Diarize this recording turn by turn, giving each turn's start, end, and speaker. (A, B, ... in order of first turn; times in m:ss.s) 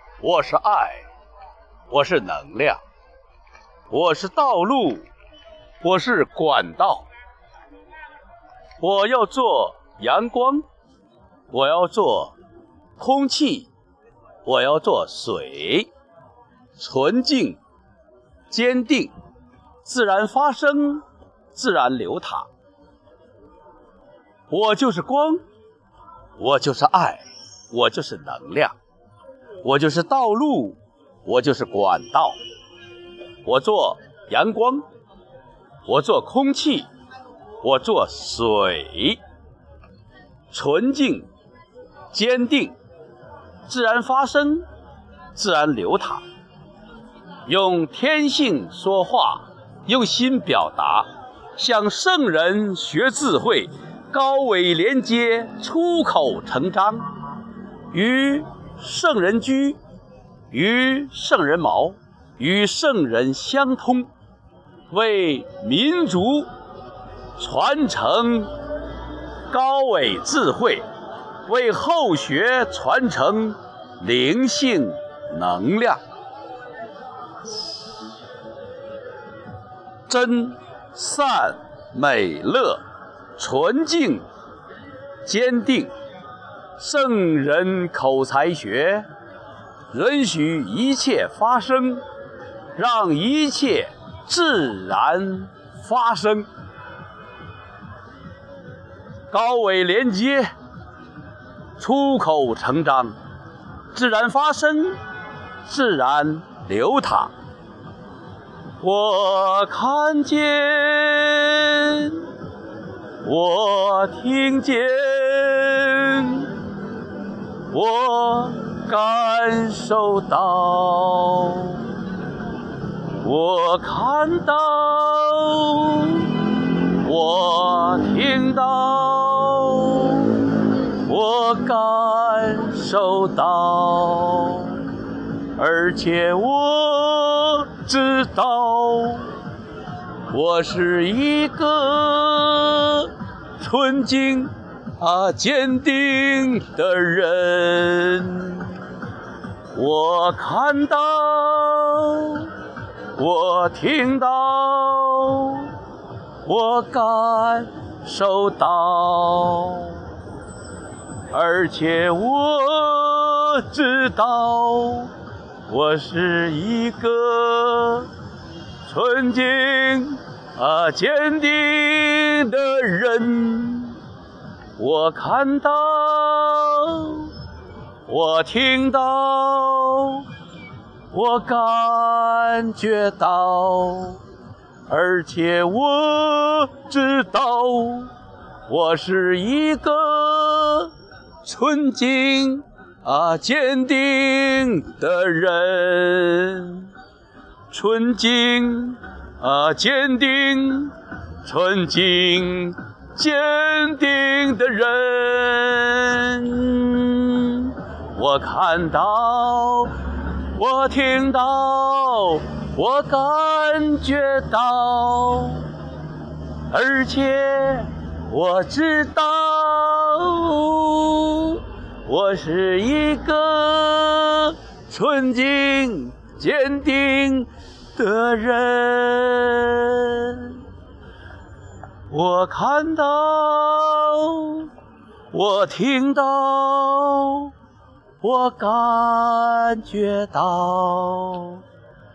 0:00.2-0:01.0 A
0:01.9-0:02.8 A
0:03.9-0:05.0 A
0:05.8-0:07.1 A
0:08.8-0:10.6 A
0:11.5-0:12.4 A
0:13.0-0:13.7 A
0:14.4-0:15.9 A
0:16.8-0:17.6 A
0:18.5-0:19.1 A
0:19.8-0:22.5 A
0:24.5-0:25.4 A
0:26.4-0:28.7 A
0:29.6-0:32.4 A
0:33.4-0:34.8 A
0:35.8-0:36.9 A
0:37.6-0:39.2 A
0:40.5-0:41.3 A
0:42.1-0:42.8 A
0:43.7-0:44.6 A
0:45.3-0:46.2 A
0:47.4-0:57.1 A
0:57.9-0:59.8 A
1:00.5-1:04.1 A
1:04.9-1:06.5 A
1:07.4-1:08.5 A
1:09.5-1:10.8 A
1:11.5-1:16.0 A
1:20.1-1:22.8 A
1:23.4-1:24.2 A
1:25.2-1:25.9 A
1:26.8-1:29.1 A
1:29.9-1:32.0 A
1:32.8-1:36.5 A
1:39.3-1:40.5 A
1:41.8-1:43.2 A
1:43.9-1:45.0 A
1:45.6-1:47.3 A
1:48.8-1:52.3 A
1:53.2-1:56.5 A
1:57.7-2:01.9 A
2:03.2-2:06.4 A
2:06.9-2:14.8 A
2:15.6-2:19.3 A
2:20.3-2:28.8 A
2:29.7-2:32.5 A
2:33.2-2:35.7 A
2:36.4-2:40.0 A
2:41.3-2:45.1 A
2:45.7-2:48.1 A
2:48.8-2:54.0 A
2:54.8-2:57.3 A
2:58.1-3:00.3 A
3:01.1-3:04.2 A
3:04.9-3:08.1 A
3:08.7-3:10.9 A
3:11.4-3:16.9 A
3:17.7-3:29.9 A
3:30.5-3:35.7 A
3:36.7-3:50.6 A
3:52.1-3:54.7 A
3:55.3-3:57.5 A
3:58.2-4:01.6 A